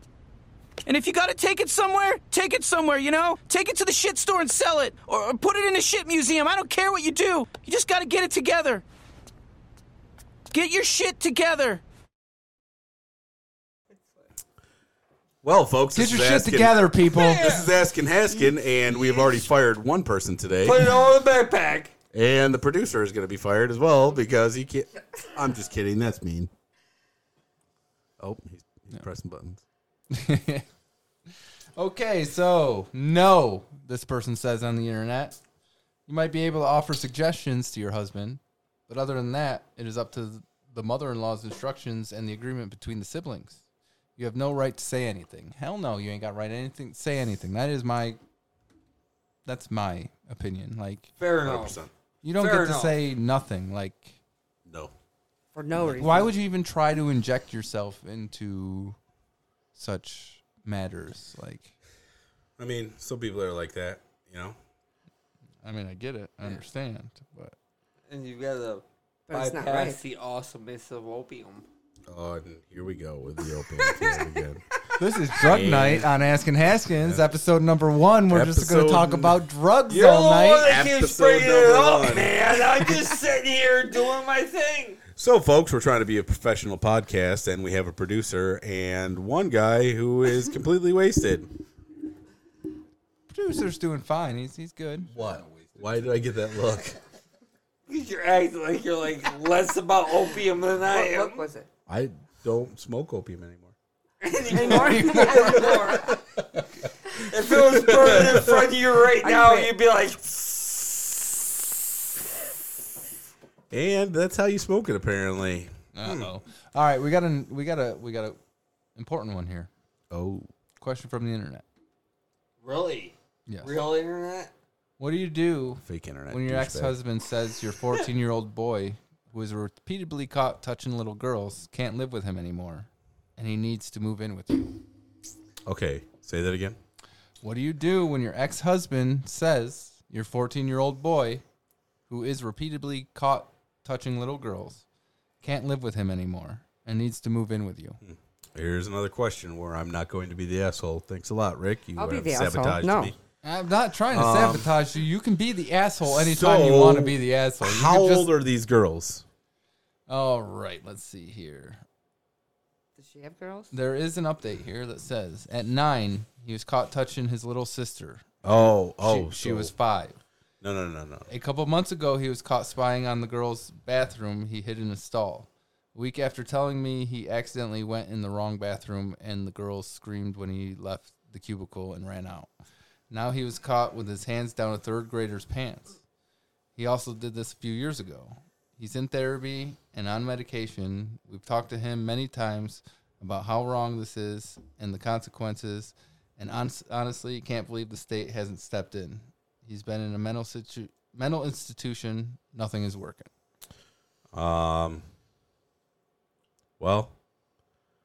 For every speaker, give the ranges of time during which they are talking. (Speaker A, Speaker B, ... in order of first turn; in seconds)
Speaker A: 0.8-8.8, 10.5-11.8
Speaker B: 15.4-20.9, 22.1-26.5, 28.2-29.6, 51.4-51.9, 54.6-54.9, 62.6-64.6, 72.1-74.6, 75.4-76.2, 76.8-77.3, 78.3-79.4, 80.6-82.4, 85.1-91.5, 95.1-97.0, 101.9-103.7, 105.9-106.2, 107.5-108.7, 113.7-116.3, 120.1-120.5, 125.8-127.0, 135.6-136.8, 148.0-153.2, 154.1-154.7, 156.0-159.2, 168.4-169.7, 170.6-171.3, 204.3-205.0, 206.8-207.1
Speaker C: 15.9-17.5, 30.1-30.6, 31.8-35.4, 36.1-43.6, 44.2-48.2, 49.5-51.1, 52.2-54.2, 55.8-59.0, 59.7-61.7, 65.6-67.5, 75.0-80.7, 93.3-95.1, 104.5-105.6, 115.9-118.4, 119.0-119.7, 120.8-121.6, 123.5-123.8, 125.0-134.8, 137.4-141.4, 142.1-144.8, 145.4-148.0, 153.4-158.3, 160.1-161.8, 163.7-170.2, 171.3-182.5, 183.1-186.0, 186.8-203.3
Speaker D: 17.1-17.7, 18.9-19.5, 20.6-21.9, 51.2-51.8, 52.4-53.0, 68.1-71.7, 73.8-74.2, 79.9-85.0, 97.9-101.4, 104.2-106.2, 107.2-111.4, 122.6-124.5
Speaker E: 55.5-56.3, 69.3-70.0, 100.8-101.7, 104.5-106.0, 109.2-109.7, 151.9-153.1, 163.0-163.7